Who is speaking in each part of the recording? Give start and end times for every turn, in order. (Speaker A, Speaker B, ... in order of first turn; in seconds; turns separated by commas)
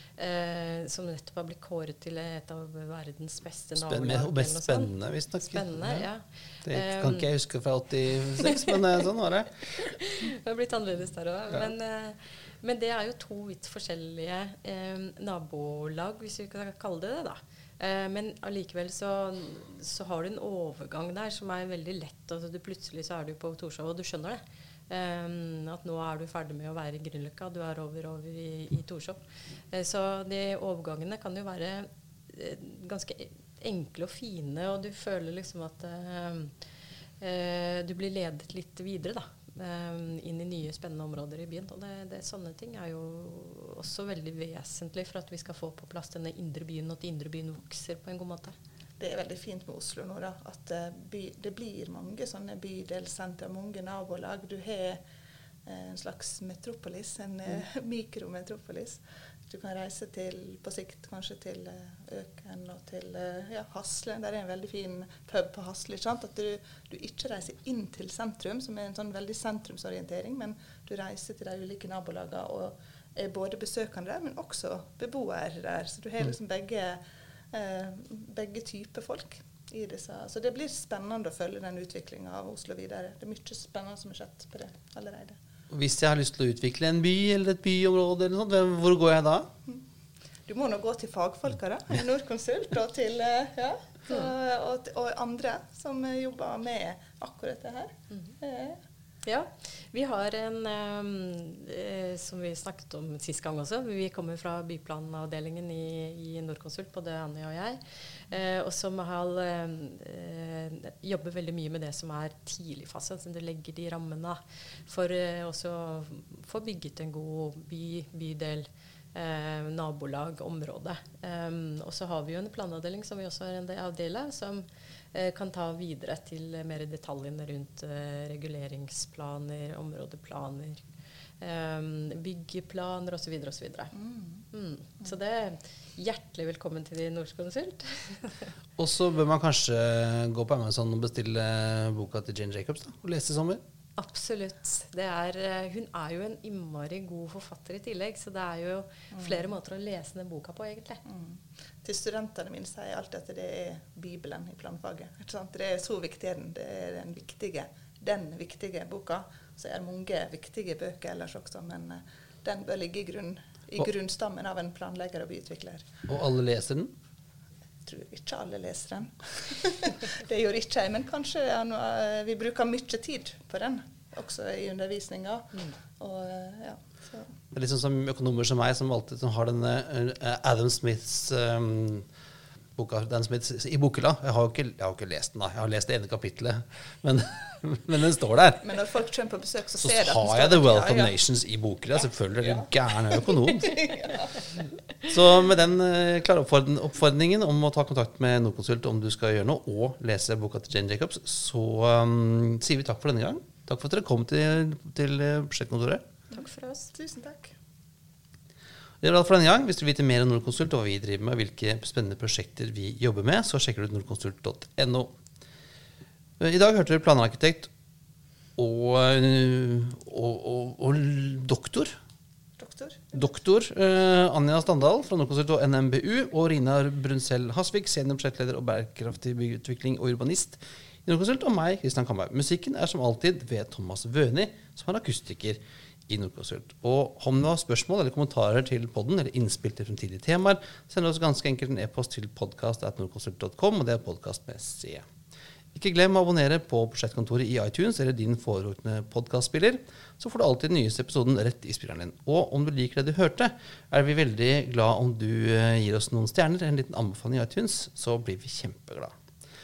Speaker A: 0.2-7.3, Speaker B: 3.8-6.1, Speaker B: 6.7-9.7, Speaker A: 8.4-8.8, Speaker A: 9.7-36.5, Speaker A: 37.2-48.6, Speaker C: 49.0-55.0, Speaker C: 55.7-85.4, Speaker B: 85.7-89.5, Speaker C: 90.5-98.8, Speaker A: 99.2-130.8, Speaker A: 131.4-133.9, Speaker C: 134.0-134.4, Speaker A: 134.5-138.5, Speaker B: 138.8-143.6, Speaker A: 144.0-151.0, Speaker C: 151.1-166.0, Speaker B: 166.1-166.9, Speaker C: 167.9-177.3, Speaker B: 177.5-182.1, Speaker B: 182.8-188.7, Speaker C: 188.6-191.1, Speaker B: 189.8-193.8, Speaker C: 192.4-194.7, Speaker B: 195.1-206.0, Speaker A: 206.3-206.9, Speaker C: 206.9-207.6, Speaker B: 209.0-215.1, Speaker B: 216.4-217.7, Speaker B: 218.6-221.9, Speaker C: 222.6-223.2, Speaker B: 223.1-245.1, Speaker B: 245.7-259.1